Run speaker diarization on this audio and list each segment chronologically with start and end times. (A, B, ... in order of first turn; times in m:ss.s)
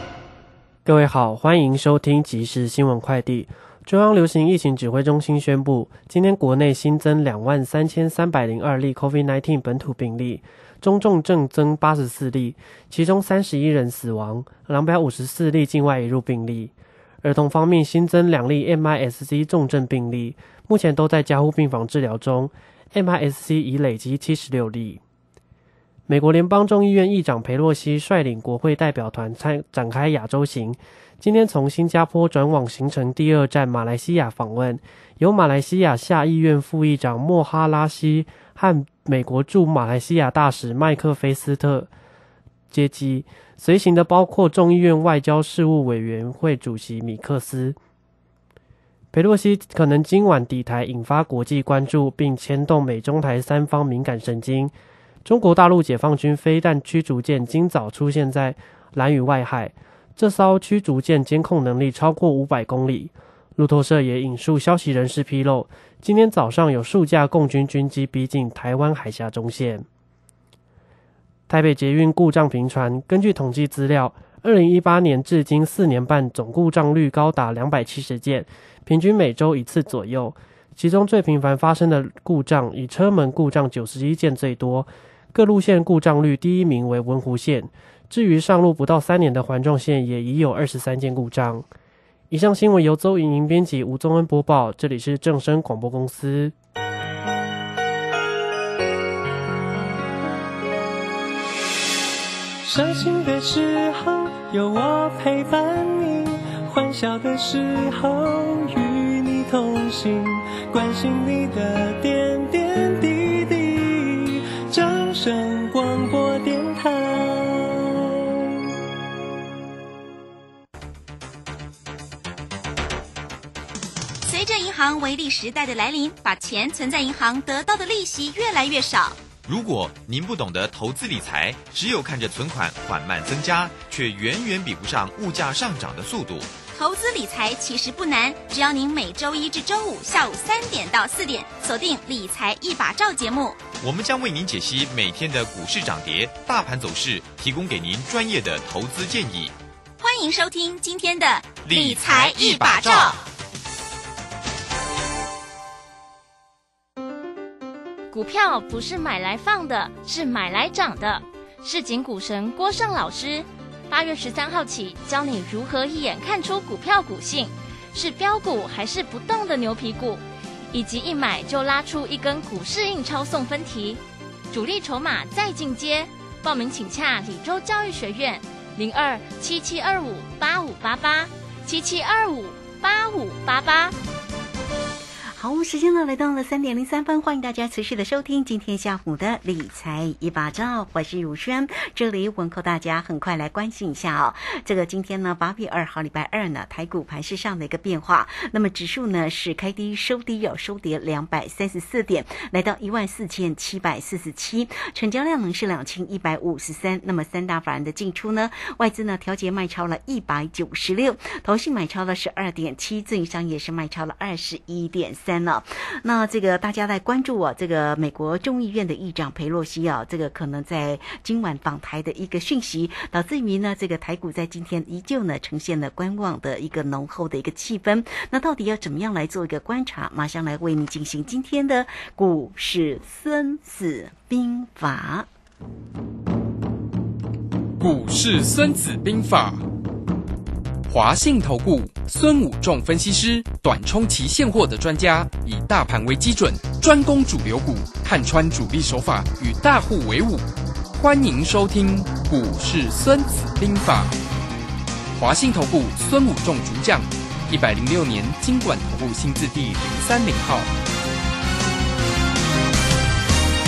0:00.8-0:16.7 A
0:17.2-0:25.0 A
0:26.1-0:41.9 A
0:42.7-0:47.8 A
0:49.1-0:54.7 A
0:55.2-1:09.8 A
1:11.5-1:31.6 A
1:32.3-1:36.5 A
1:42.6-1:58.3 B
2:04.2-2:09.2 C
2:09.4-2:16.6 D
2:16.7-2:23.6 C
2:23.8-2:29.5 D
2:30.0-2:33.2 C
2:31.6-2:33.2 D
2:38.1-2:54.0 E
2:54.5-3:04.0 E
3:05.4-3:55.3 F
3:57.8-3:59.6 G
4:00.9-4:14.1 G
4:15.1-4:20.7 G